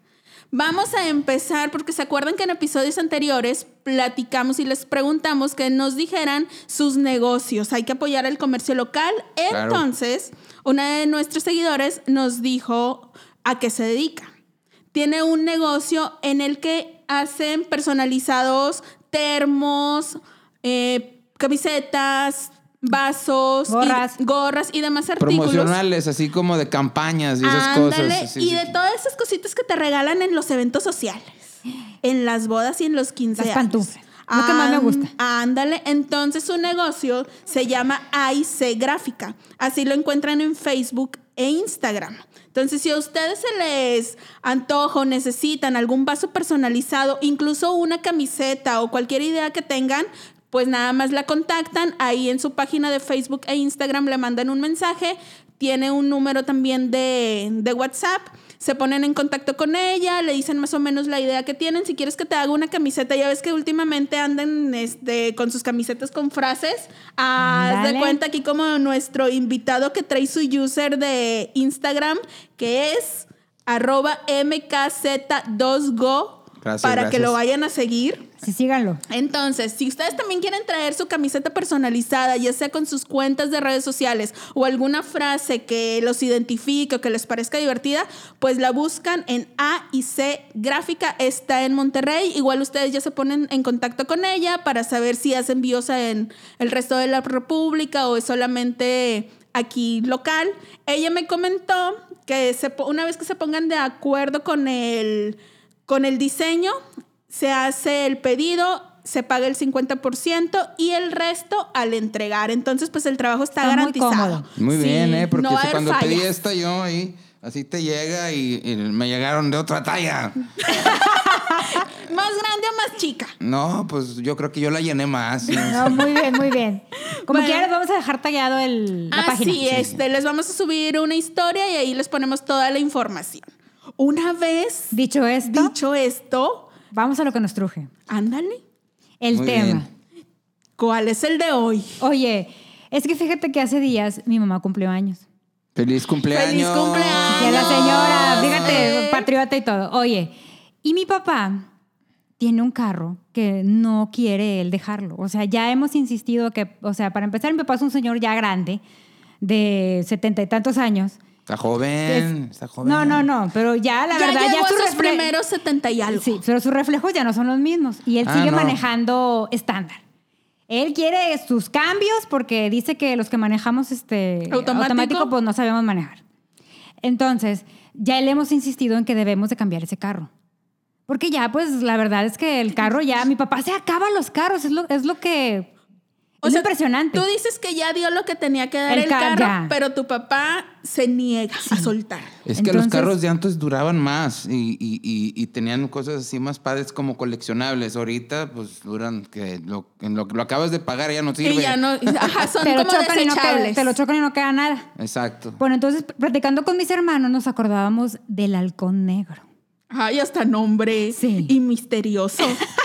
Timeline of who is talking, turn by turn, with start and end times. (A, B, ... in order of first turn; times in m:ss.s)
0:00.5-0:14.3 A
0:09.5-0:09.8 B
0:14.9-0:25.8 A
0:23.7-0:24.2 C
0:25.2-0:28.7 B
0:27.4-1:18.3 A
0:33.4-0:35.1 C
1:07.4-1:08.2 C
1:16.6-1:17.4 B
1:18.4-1:19.0 C
1:19.1-1:46.8 A
1:47.3-1:56.3 A
1:53.6-1:54.4 C
1:54.6-2:00.5 B
2:00.6-2:03.3 A
2:00.8-2:01.8 C
2:03.4-2:06.1 B
2:05.6-2:09.6 C
2:07.3-2:07.7 A
2:09.1-2:13.5 A
2:09.6-2:10.0 B
2:14.0-2:16.7 A
2:14.9-2:15.7 C
2:16.9-2:17.9 C
2:18.1-2:18.6 A
2:19.2-2:19.9 C
2:19.3-2:19.8 B
2:20.8-2:22.0 A
2:22.0-2:25.2 C
2:25.8-2:28.9 B
2:26.3-2:29.3 A
2:27.2-2:31.6 C
2:32.4-2:38.8 C
2:39.4-2:41.2 C
2:41.5-2:43.3 B
2:42.8-2:45.3 C
2:44.1-2:46.4 A
2:46.1-2:50.0 C
2:48.2-2:48.8 B
2:50.7-2:56.2 C
2:54.5-2:55.3 A
2:57.0-3:00.3 C
3:01.1-3:05.7 C
3:06.4-3:12.3 A
3:06.4-3:07.2 C
3:08.9-3:09.7 C
3:11.7-3:11.9 C
3:12.4-3:22.3 B
3:12.6-3:13.1 C
3:21.4-3:23.9 A
3:22.6-3:24.9 C
3:25.0-3:25.6 B
3:25.6-3:29.4 C
3:29.9-3:32.6 A
3:31.1-3:31.5 C